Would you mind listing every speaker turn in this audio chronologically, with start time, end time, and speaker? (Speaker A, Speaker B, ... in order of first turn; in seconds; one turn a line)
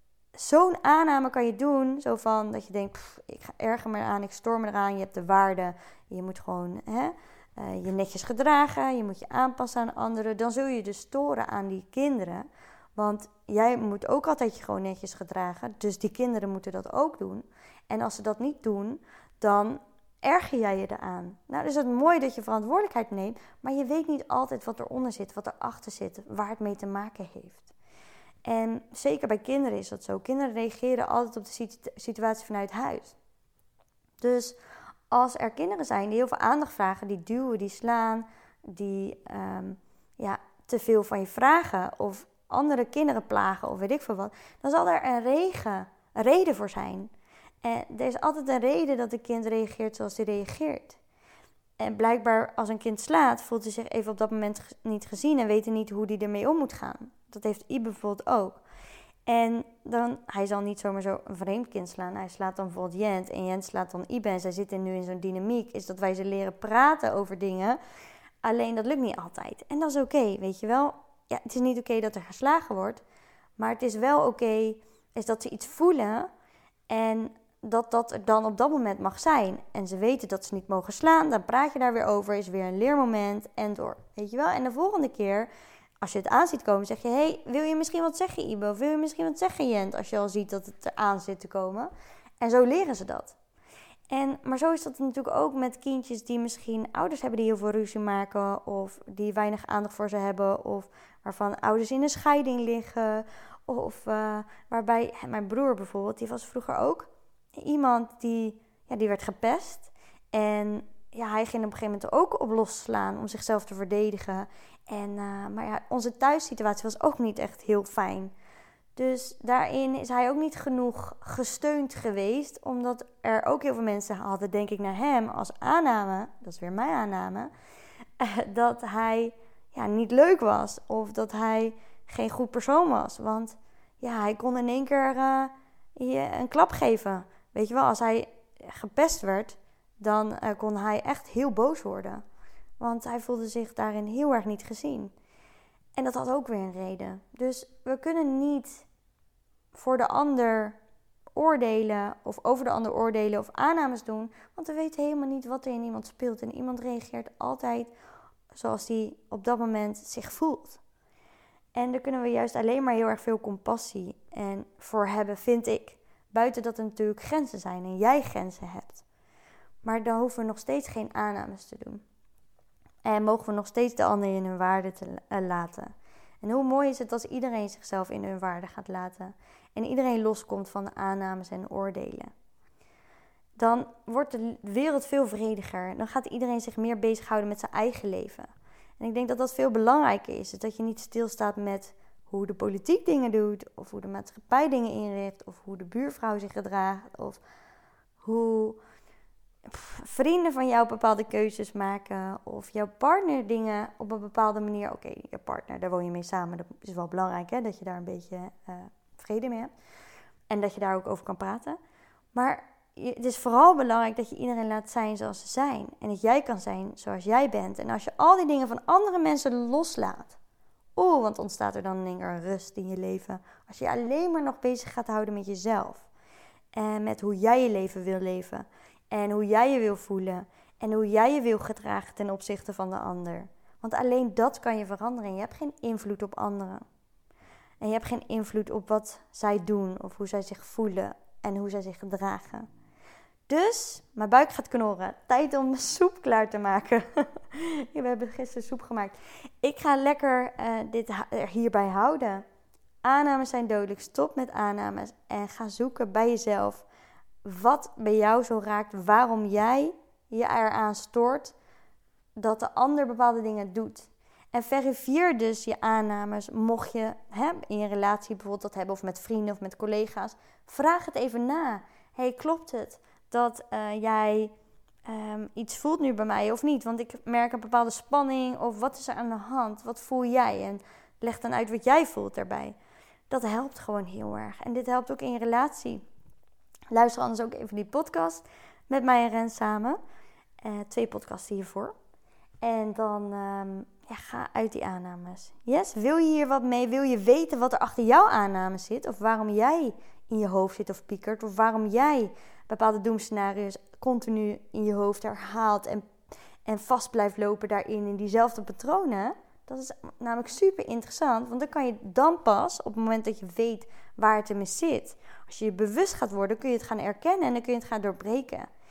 Speaker A: 0.3-27.7
Speaker A: 28.4-33.1
Speaker A: 34.2-34.6
Speaker A: 35.1-47.1
Speaker A: 47.6-51.0
Speaker A: 51.8-58.6
Speaker A: 59.3-67.8
Speaker A: 68.4-73.0
Speaker A: 73.6-76.3
Speaker A: 76.9-85.5
Speaker A: 86.0-93.4
Speaker A: 94.1-118.3
Speaker A: 119.0-127.5
Speaker A: 128.2-142.2
Speaker A: 142.8-145.1
Speaker A: 145.9-148.9
Speaker A: 149.7-150.8
Speaker A: 151.4-157.9
Speaker A: 158.5-160.8
Speaker A: 161.8-169.0
Speaker A: 169.8-172.0
Speaker A: 173.1-182.3
Speaker A: 183.6-197.4
Speaker A: 198.2-198.8
Speaker A: 199.7-209.7
Speaker A: 210.5-211.8
Speaker A: 212.3-220.4
Speaker A: 221.0-226.1
Speaker A: 226.8-236.8
Speaker A: 237.8-242.7
Speaker A: 243.5-252.4
Speaker A: 253.0-256.9
Speaker A: 257.4-261.6
Speaker A: 262.4-274.5
Speaker A: 275.1-282.8
Speaker A: 283.3-286.1
Speaker A: 286.9-290.0
Speaker A: 290.6-291.9
Speaker A: 292.6-306.1
Speaker A: 306.6-318.7